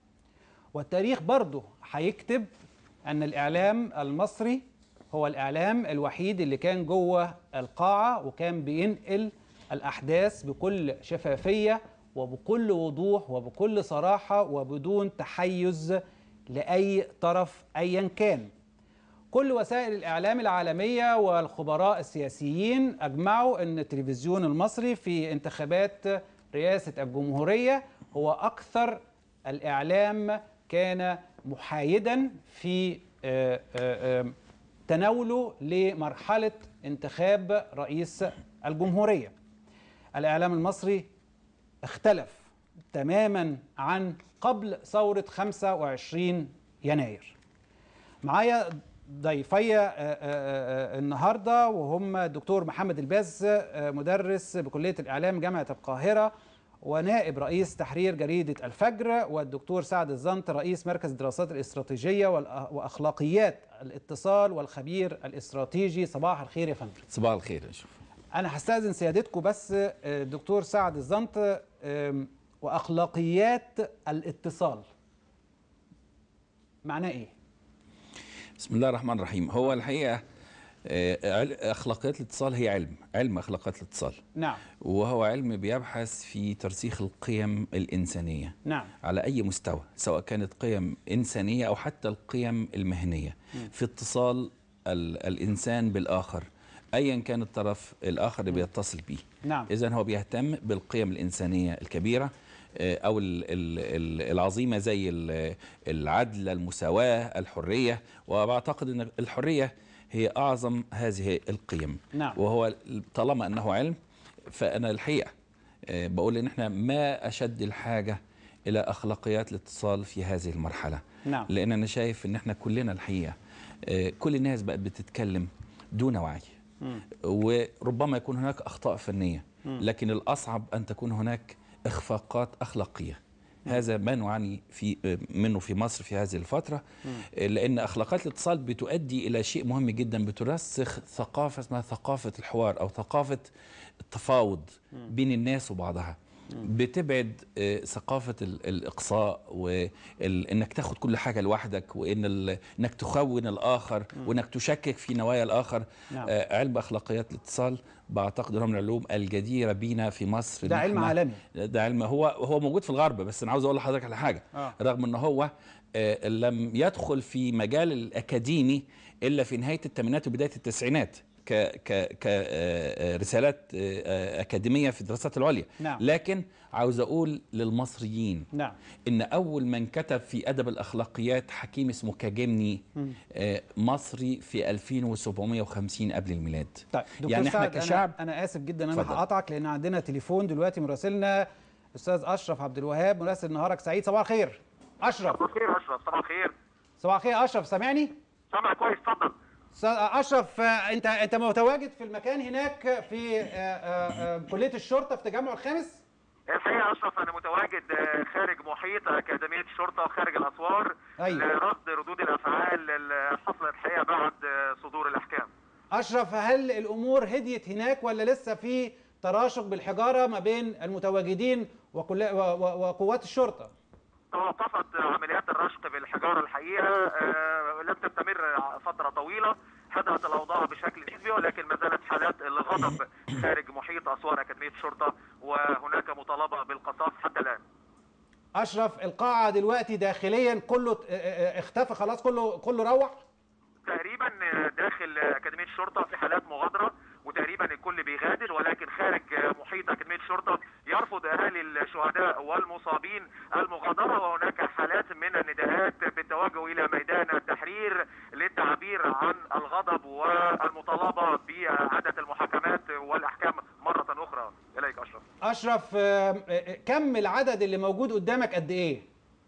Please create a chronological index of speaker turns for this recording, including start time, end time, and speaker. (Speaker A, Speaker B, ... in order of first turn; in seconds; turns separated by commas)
Speaker A: 0.7-2.5, Speaker A: 3.1-18.5, Speaker A: 19.3-34.4, Speaker A: 34.9-39.3, Speaker A: 40.2-41.1, Speaker A: 41.8-47.4, Speaker A: 48.2-56.3, Speaker A: 56.8-67.0, Speaker B: 67.1-67.9, Speaker A: 68.3-74.9, Speaker A: 76.8-77.3, Speaker B: 78.6-80.2, Speaker B: 80.8-84.2, Speaker A: 84.4-84.6, Speaker B: 84.8-114.0, Speaker A: 88.7-88.9, Speaker A: 99.4-99.7, Speaker A: 112.1-112.4, Speaker B: 114.5-115.3, Speaker B: 115.9-126.6, Speaker A: 121.2-121.5, Speaker B: 127.2-143.5, Speaker B: 144.1-178.5, Speaker A: 160.6-161.4, Speaker A: 178.5-178.8, Speaker B: 179.1-188.2, Speaker A: 186.9-195.4, Speaker B: 188.9-189.2, Speaker C: 195.3-196.5, Speaker A: 197.0-198.2, Speaker C: 198.5-199.3, Speaker A: 199.7-206.0, Speaker C: 206.5-215.5, Speaker A: 211.2-211.5, Speaker A: 215.9-223.7, Speaker C: 224.3-237.6, Speaker A: 238.6-243.2, Speaker C: 243.8-265.2, Speaker A: 265.4-269.1